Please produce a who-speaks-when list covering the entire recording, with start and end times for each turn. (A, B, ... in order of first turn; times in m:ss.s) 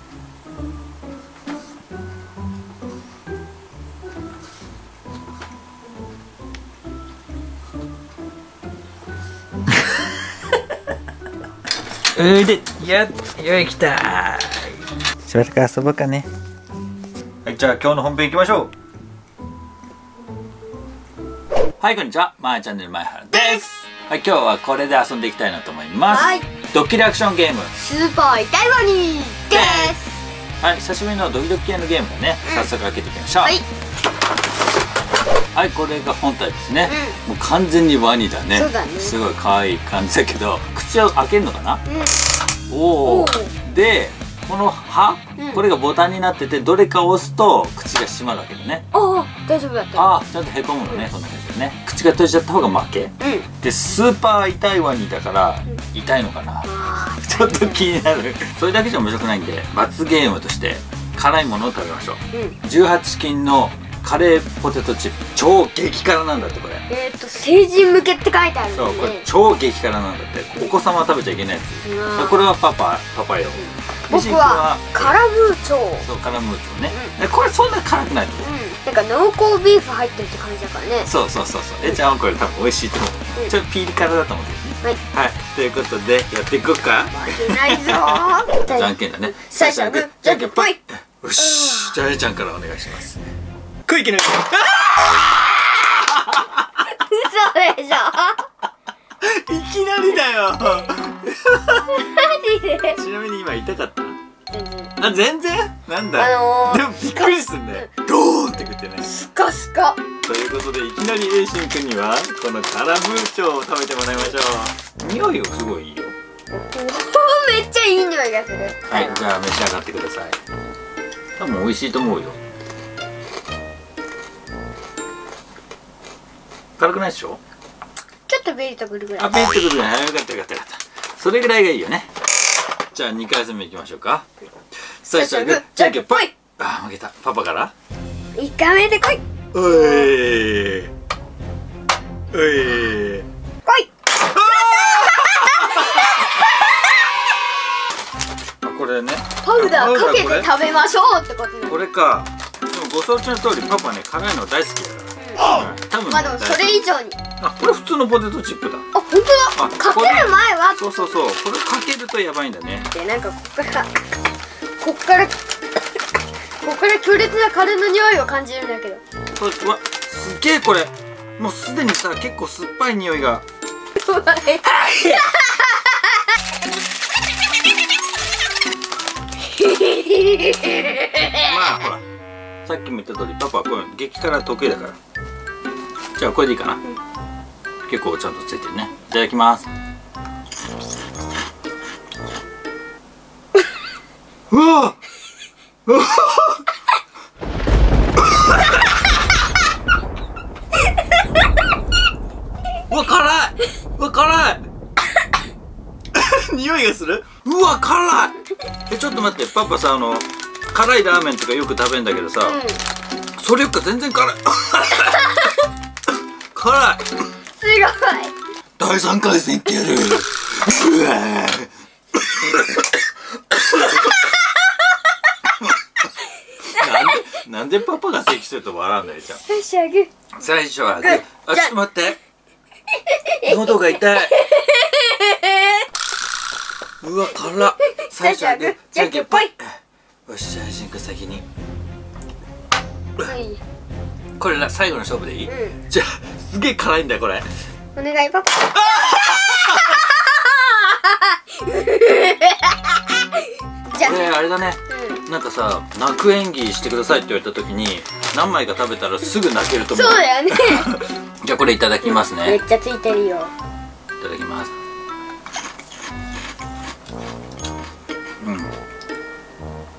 0:12.1-0:16.3 A
0:17.4-0:18.7 A
0:21.8-0:27.7 A
0:23.3-0:23.6 B
0:26.1-0:26.4 B
0:27.8-0:30.2 B
0:29.5-0:30.0 A
0:30.6-0:33.6 A
0:32.4-0:32.7 B
0:35.6-0:41.8 A
0:36.8-0:37.2 B
0:38.5-0:39.2 B
0:41.9-0:42.2 B
0:42.7-0:48.8 A
0:43.0-0:43.5 B
0:45.4-0:45.6 B
0:48.9-0:50.2 B
0:49.9-0:56.7 A
0:53.2-0:53.5 B
0:56.6-0:57.9 B
0:57.2-1:06.8 A
1:02.3-1:02.6 B
1:06.9-1:09.2 B
1:08.7-1:15.2 A
1:11.8-1:12.4 B
1:13.6-1:16.1 B
1:16.0-1:18.5 A
1:16.9-1:17.2 B
1:18.4-1:21.1 B
1:21.0-1:33.2 A
1:27.1-1:30.8 B
1:31.4-1:32.0 B
1:33.8-1:35.5 A
1:36.0-1:36.6 A
1:36.9-1:38.4 B
1:39.2-1:42.0 A
1:41.9-1:43.0 B
1:42.9-1:44.2 A
1:44.5-1:44.9 B
1:45.0-1:49.1 A
1:46.1-1:47.9 B
1:49.0-1:50.0 B
1:50.2-1:56.1 A
1:56.6-1:59.2 B
1:58.9-2:00.4 A
2:01.4-2:02.4 A
2:06.8-2:07.4 A
2:08.3-2:09.5 B
2:09.2-2:12.1 A
2:12.9-2:14.2 A
2:15.0-2:17.7 A
2:15.1-2:16.3 B
2:18.4-2:19.2 B
2:19.5-2:20.9 A
2:22.3-2:23.2 A
2:23.6-2:26.6 B
2:24.3-2:26.4 A
2:28.6-2:30.5 A
2:29.4-2:31.8 B
2:31.7-2:36.8 A
2:35.2-2:35.5 B
2:36.1-2:37.2 B
2:37.4-2:38.8 A
2:38.9-2:41.1 B
2:39.6-2:42.9 A
2:42.8-2:43.9 B
2:44.8-2:45.3 B
2:46.6-2:49.0 B
2:49.4-2:53.4 A
2:54.0-2:55.9 B
2:54.8-2:55.3 A
2:59.5-3:01.6 B
3:01.4-3:02.0 A
3:02.6-3:05.0 A
3:06.2-3:06.8 A
3:07.9-3:09.7 A
3:14.5-3:15.0 A
3:15.8-3:16.6 A
3:22.9-3:24.6 A
3:26.1-3:28.4 A
3:28.9-3:32.6 A
3:32.4-3:32.8 B
3:33.4-3:35.3 A
3:35.2-3:35.5 B
3:36.5-3:37.1 A
3:37.6-3:38.3 B
3:38.8-3:42.9 A
3:43.5-3:44.1 A
3:46.7-3:49.4 A
3:49.4-3:50.1 B
3:50.4-3:52.2 A
3:51.0-3:51.8 B
3:53.0-3:55.8 B
3:53.4-3:54.4 A
3:57.0-4:01.4 A
3:57.8-3:59.5 B
4:03.2-4:03.6 B
4:04.4-4:07.5 A
4:05.4-4:05.8 B
4:07.9-4:14.3 B
4:08.9-4:10.0 A
4:14.0-4:22.6 A
4:14.9-4:15.2 B
4:19.9-4:21.0 B
4:22.0-4:23.5 B
4:24.2-4:24.7 A
4:28.4-4:28.7 A